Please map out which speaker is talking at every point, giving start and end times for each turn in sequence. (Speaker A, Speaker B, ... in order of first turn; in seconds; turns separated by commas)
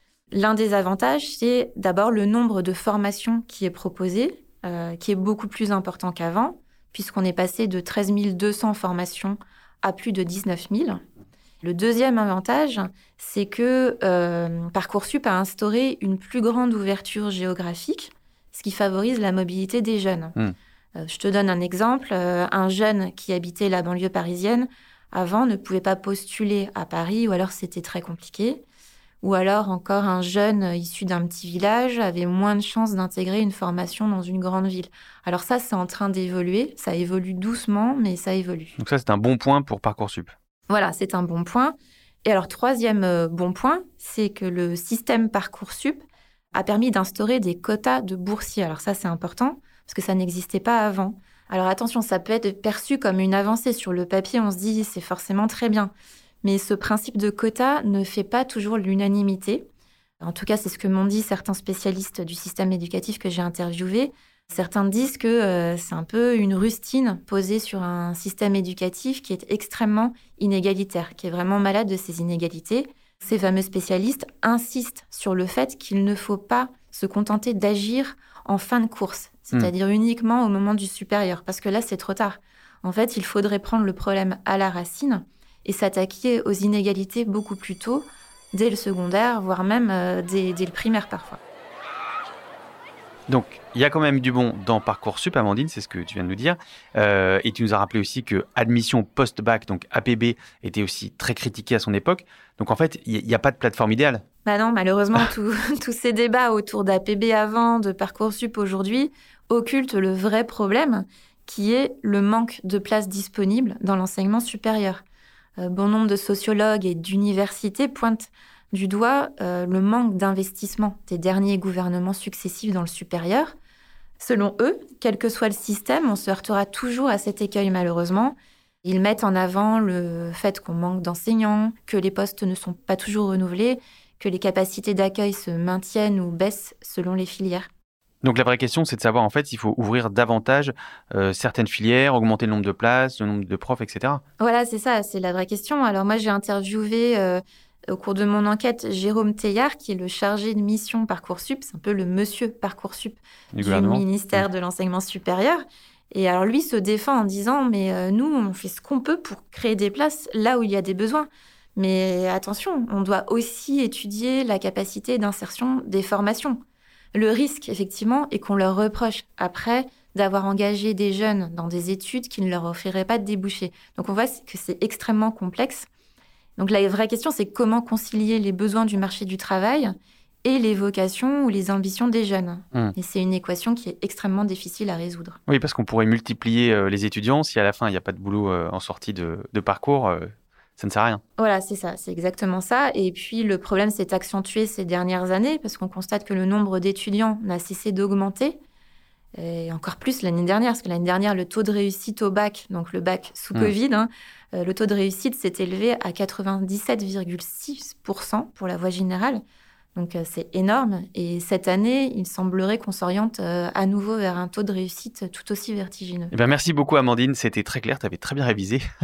Speaker A: 0.3-11.0, Speaker A: 11.6-20.3, Speaker A: 21.0-28.6, Speaker A: 29.2-38.7, Speaker B: 38.8-40.3, Speaker A: 40.7-46.0, Speaker A: 46.5-55.9, Speaker A: 56.4-59.6, Speaker A: 60.2-91.4, Speaker B: 93.3-104.2, Speaker A: 104.4-115.0, Speaker A: 115.6-123.5, Speaker A: 124.2-137.7, Speaker B: 138.2-144.2, Speaker A: 144.4-166.6, Speaker B: 153.5-154.4, Speaker A: 167.1-175.9, Speaker A: 176.6-185.4, Speaker B: 185.5-191.2, Speaker A: 191.4-198.6, Speaker A: 199.4-209.4, Speaker A: 209.9-216.3, Speaker B: 216.3-218.8